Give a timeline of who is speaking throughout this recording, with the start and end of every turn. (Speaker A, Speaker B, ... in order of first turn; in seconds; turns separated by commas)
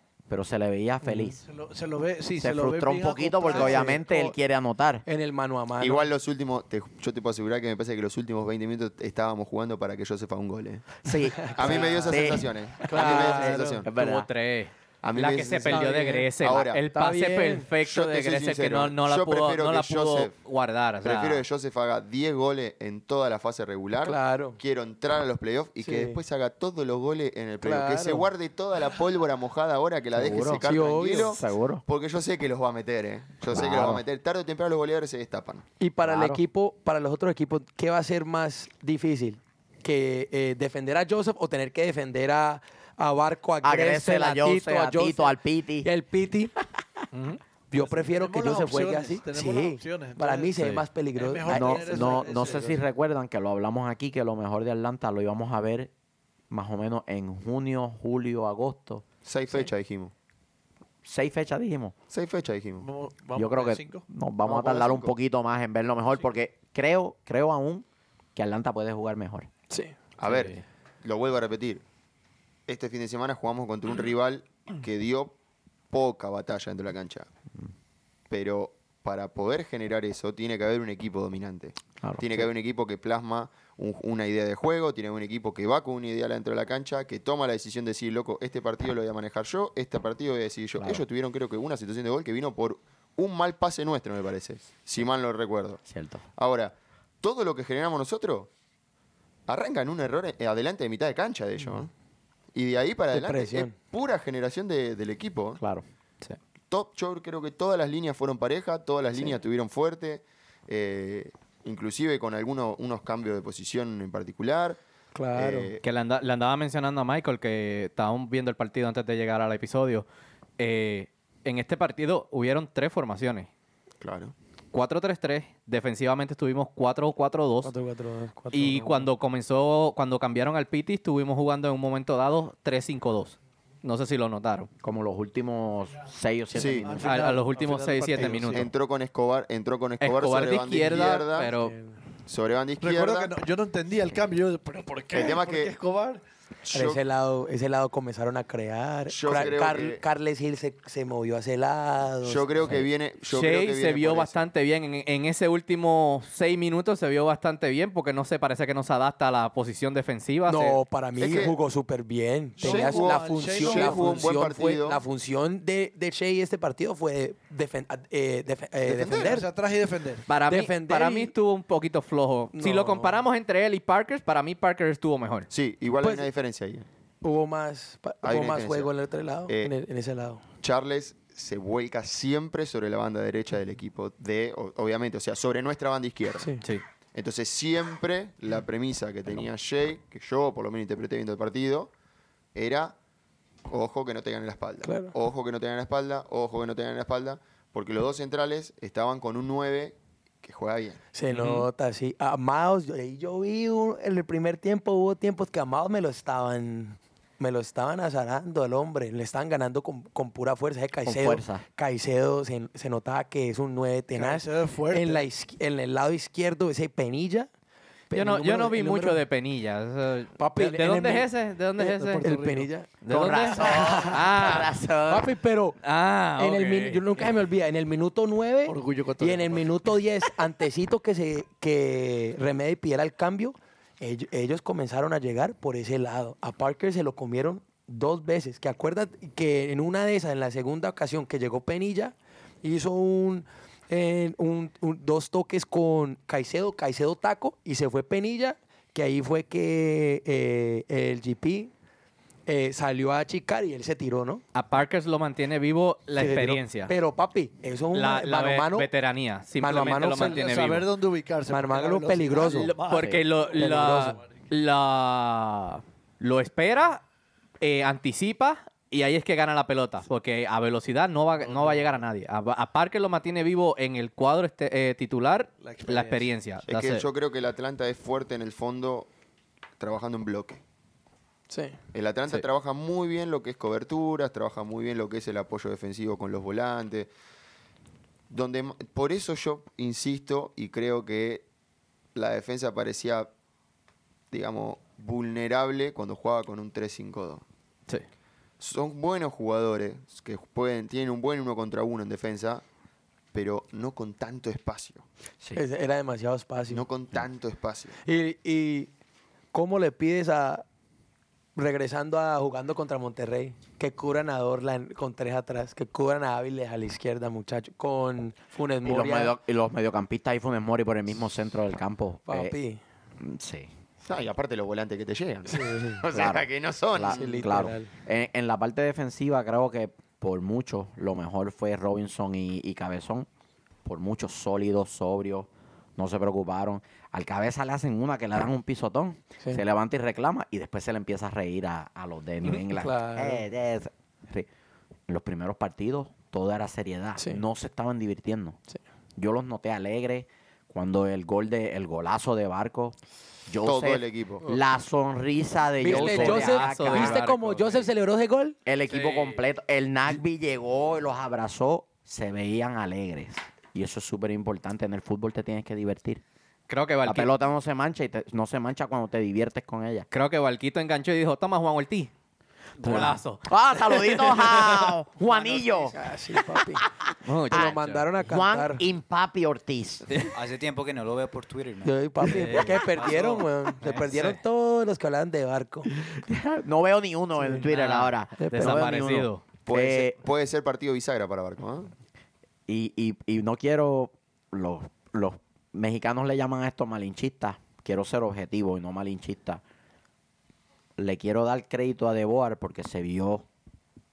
Speaker A: 0.3-1.4, Speaker B: 1.0-1.4, Speaker C: 1.4-4.0, Speaker A: 2.4-5.0, Speaker B: 3.5-4.3, Speaker B: 5.0-6.1, Speaker D: 5.8-13.9, Speaker A: 11.0-14.3, Speaker B: 11.4-12.3, Speaker B: 12.8-13.8, Speaker E: 13.9-21.4, Speaker D: 15.0-16.8, Speaker B: 15.4-16.3, Speaker B: 16.9-17.7, Speaker D: 17.8-20.3, Speaker D: 21.0-35.6, Speaker B: 24.0-24.6, Speaker B: 25.8-26.2, Speaker B: 27.6-28.3, Speaker A: 30.1-30.6, Speaker B: 30.4-31.4, Speaker A: 31.2-31.8, Speaker A: 33.5-34.0, Speaker B: 35.8-46.5, Speaker A: 36.0-36.4, Speaker A: 43.6-45.9, Speaker E: 47.1-47.4, Speaker C: 47.7-50.6, Speaker B: 47.7-52.7, Speaker C: 51.1-52.8, Speaker A: 51.5-55.9, Speaker A: 56.5-59.0, Speaker D: 59.2-60.1, Speaker A: 61.0-61.9, Speaker D: 62.1-62.9, Speaker C: 62.8-64.0, Speaker A: 63.4-69.5, Speaker D: 64.4-65.1, Speaker D: 70.2-71.8, Speaker E: 70.2-70.6, Speaker D: 72.7-75.3, Speaker D: 75.9-77.3, Speaker D: 78.3-95.8, Speaker A: 82.0-82.5, Speaker A: 90.8-91.0, Speaker A: 95.9-96.2, Speaker D: 96.4-98.5, Speaker D: 99.5-101.9, Speaker D: 102.5-105.6, Speaker B: 103.1-103.7, Speaker A: 105.6-105.8, Speaker D: 106.7-114.8, Speaker B: 115.1-115.7, Speaker D: 115.3-115.8, Speaker E: 115.8-120.0, Speaker E: 120.6-123.5, Speaker D: 124.0-124.3, Speaker E: 124.7-127.7, Speaker B: 127.6-129.1, Speaker E: 128.5-134.7, Speaker A: 134.8-137.0, Speaker D: 136.5-136.9, Speaker C: 136.8-138.7, Speaker E: 137.0-138.7, Speaker B: 138.2-138.6, Speaker D: 138.5-141.5, Speaker E: 140.0-141.8, Speaker B: 141.6-141.9, Speaker D: 142.3-143.3, Speaker C: 142.8-146.2, Speaker D: 145.1-145.8, Speaker D: 146.6-147.0, Speaker B: 146.7-152.8, Speaker D: 149.1-150.0, Speaker D: 152.2-154.4, Speaker E: 153.3-160.8, Speaker B: 160.4-169.5, Speaker D: 161.2-161.6, Speaker C: 162.6-164.4, Speaker D: 162.6-165.0, Speaker D: 168.8-169.4, Speaker C: 169.1-170.3, Speaker E: 170.3-175.5, Speaker B: 170.5-171.3, Speaker B: 172.5-173.2, Speaker D: 175.5-176.8, Speaker B: 176.0-176.2, Speaker B: 177.2-180.4, Speaker D: 178.2-178.9, Speaker D: 179.5-179.7, Speaker D: 180.6-186.5, Speaker B: 186.4-186.7, Speaker D: 187.1-191.9, Speaker D: 192.5-192.9, Speaker D: 193.7-201.0, Speaker B: 194.8-195.1, Speaker B: 201.1-217.5, Speaker E: 201.3-201.7, Speaker A: 211.0-211.6, Speaker C: 214.1-215.2, Speaker B: 218.1-219.2, Speaker E: 218.1-222.2, Speaker B: 220.4-223.0, Speaker C: 222.1-222.7, Speaker E: 223.0-224.7, Speaker A: 223.1-225.3, Speaker B: 223.5-224.2, Speaker B: 225.1-225.8, Speaker E: 225.8-227.0, Speaker B: 226.3-251.7, Speaker C: 228.6-229.7, Speaker B: 252.5-254.4, Speaker E: 254.5-256.9, Speaker B: 256.1-258.9, Speaker E: 257.9-260.9, Speaker B: 259.6-260.5, Speaker C: 259.7-264.0, Speaker B: 261.5-262.7, Speaker E: 262.4-267.0, Speaker A: 262.9-263.2, Speaker B: 263.5-264.2, Speaker E: 267.6-277.1, Speaker C: 271.4-271.9, Speaker C: 275.6-276.3, Speaker D: 276.7-279.1, Speaker D: 279.8-280.6, Speaker B: 281.5-281.8, Speaker D: 281.9-287.1, Speaker D: 288.3-291.4, Speaker D: 292.1-293.3, Speaker D: 294.3-297.4, Speaker D: 298.6-302.6, Speaker D: 303.3-305.0, Speaker B: 305.5-306.8, Speaker D: 306.7-308.0, Speaker B: 308.0-308.9, Speaker B: 309.5-310.6, Speaker B: 311.5-319.4, Speaker A: 318.8-322.6, Speaker B: 322.3-322.8, Speaker A: 323.2-323.7, Speaker D: 324.0-327.4, Speaker B: 325.5-326.0, Speaker A: 326.1-333.3, Speaker B: 327.1-327.9, Speaker A: 333.8-344.5, Speaker B: 342.7-343.4, Speaker A: 345.1-348.6, Speaker B: 347.2-347.4, Speaker A: 349.2-352.9, Speaker A: 353.5-357.2, Speaker D: 353.6-354.4, Speaker B: 355.8-358.6, Speaker E: 355.8-357.9, Speaker A: 358.6-366.2, Speaker E: 358.9-359.4, Speaker E: 366.7-367.3, Speaker A: 367.0-370.1, Speaker E: 370.1-372.1, Speaker E: 372.8-375.0, Speaker A: 372.8-376.0, Speaker B: 375.9-376.8, Speaker A: 376.7-380.1, Speaker E: 377.2-378.1, Speaker B: 377.4-378.9, Speaker F: 380.3-383.6, Speaker B: 381.8-385.9, Speaker E: 382.2-382.8, Speaker E: 383.8-384.4, Speaker A: 386.2-390.2, Speaker B: 387.4-387.6, Speaker E: 387.6-389.4, Speaker B: 388.4-388.9, Speaker D: 389.6-391.9, Speaker A: 392.7-399.6, Speaker A: 401.0-403.4